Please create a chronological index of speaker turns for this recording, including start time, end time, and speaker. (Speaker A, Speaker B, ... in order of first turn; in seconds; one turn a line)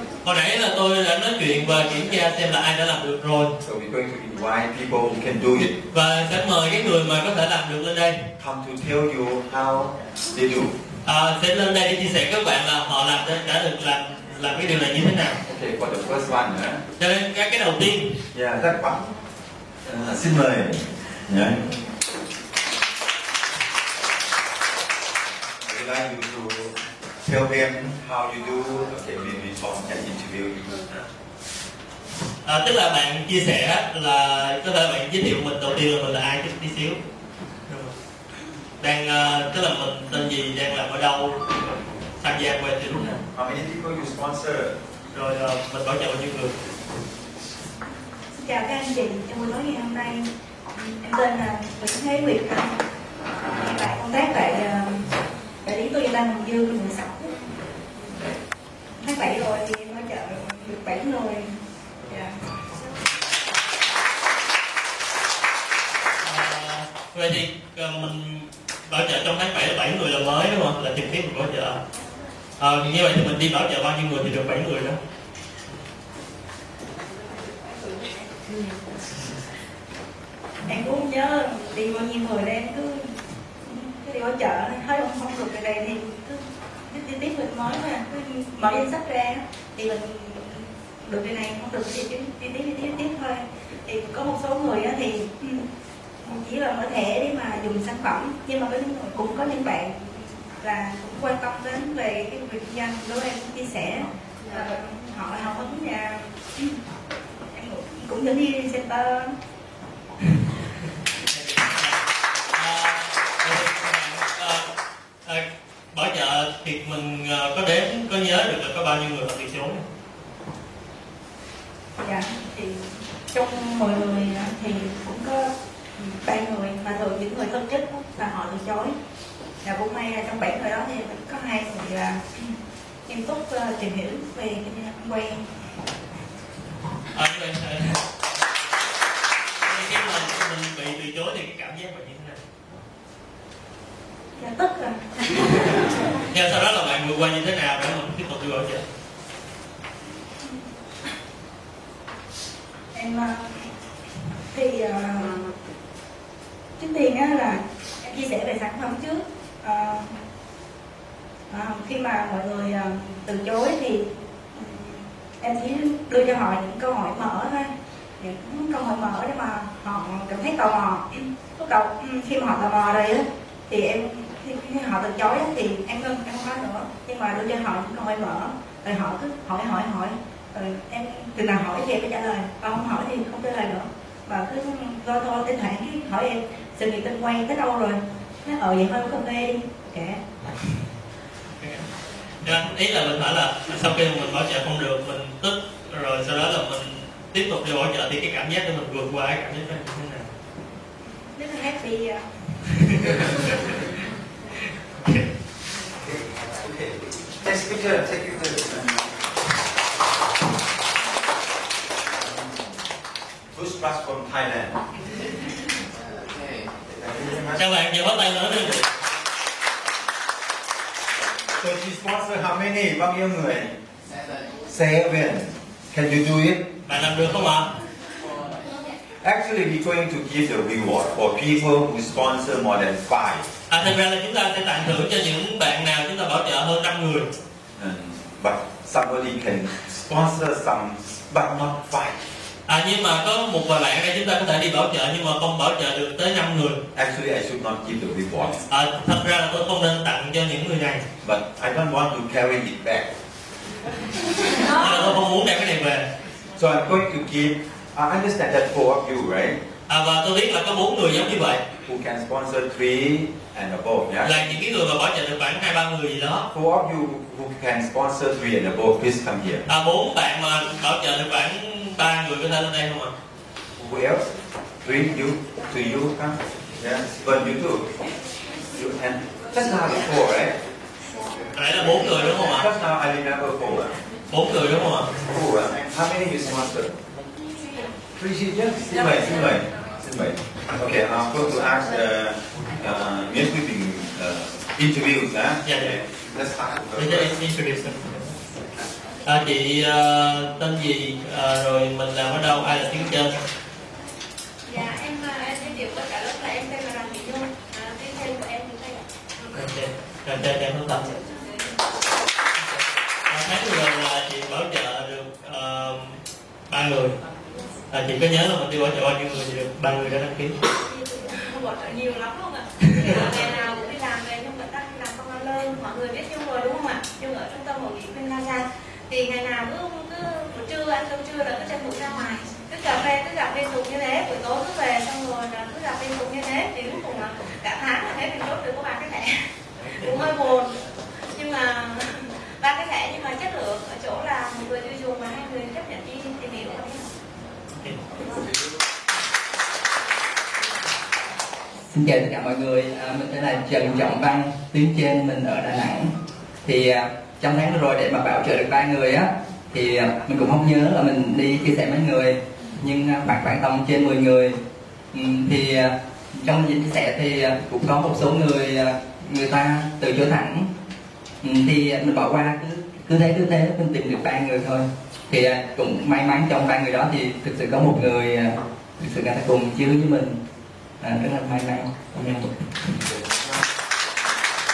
Speaker A: 0.2-3.5
Speaker B: 3.6-5.8
Speaker A: 5.9-8.2
Speaker B: 8.4-10.8
Speaker A: 11.1-15.4
Speaker B: 15.5-16.8
Speaker A: 17.0-18.2
Speaker B: 18.3-19.1
Speaker B: 19.9-21.7
Speaker B: 25.6-30.8
Speaker A: 32.4-37.0
Speaker A: 37.7-37.9
Speaker A: 38.8-43.2
Speaker B: 43.3-44.8
Speaker A: 45.1-46.5
Speaker C: 48.3-52.8
Speaker C: 53.5-55.1
Speaker C: 55.6-57.4
Speaker C: 59.0-61.5
Speaker C: 62.1-62.3
Speaker A: 66.2-71.8
Speaker A: 72.6-75.0
Speaker C: 80.7-95.6
Speaker C: 96.2-106.8
Speaker C: 107.5-109.3
Speaker A: 111.3-112.0
Speaker A: 112.5-114.6
Speaker A: 115.2-119.8
Speaker C: 122.0-128.9
Speaker C: 129.6-132.4
Speaker C: 133.1-135.4
Speaker A: 137.1-138.0
Speaker A: 139.6-142.4
Speaker C: 144.4-145.8
Speaker A: 146.3-148.8
Speaker C: 152.9-153.6
Speaker C: 154.5-155.5
Speaker C: 156.8-160.1
Speaker C: 161.5-190.2
Speaker A: 191.6-191.8
Speaker A: 192.4-200.3
Speaker C: 201.2-202.2
Speaker A: 202.8-203.8
Speaker B: 206.0-208.9
Speaker B: 213.5-214.8
Speaker B: 216.9-217.6
Speaker A: 217.6-218.8
Speaker B: 221.6-223.8
Speaker B: 224.7-226.7
Speaker A: 226.9-227.7
Speaker B: 229.2-233.4
Speaker A: 233.7-237.3
Speaker B: 237.8-242.2
Speaker A: 242.7-246.8
Speaker B: 246.9-248.6
Speaker A: 248.7-251.0
Speaker B: 251.2-253.1
Speaker A: 254.6-256.1
Speaker B: 256.6-259.6
Speaker A: 259.9-261.6
Speaker B: 261.8-264.3
Speaker A: 264.2-266.5
Speaker B: 266.5-269.6
Speaker A: 269.7-273.1
Speaker B: 273.8-274.3
Speaker B: 274.8-277.9
Speaker B: 278.7-280.6
Speaker A: 281.5-282.7
Speaker B: 282.5-283.9
Speaker A: 284.3-285.1
Speaker B: 285.2-286.9
Speaker B: 288.1-297.3
Speaker A: 295.6-295.9
Speaker A: 297.0-298.3
Speaker A: 299.2-303.4
Speaker D: 304.6-309.1
Speaker A: 309.5-311.0
Speaker D: 311.1-311.6
Speaker A: 313.3-316.1
Speaker A: 316.7-317.1
Speaker A: 317.9-320.6
Speaker D: 320.8-339.4
Speaker A: 322.8-323.2
Speaker D: 340.0-340.7
Speaker D: 341.3-347.1
Speaker E: 351.9-356.1
Speaker E: 356.6-364.6
Speaker E: 365.1-370.7
Speaker E: 371.4-380.4
Speaker E: 381.0-382.5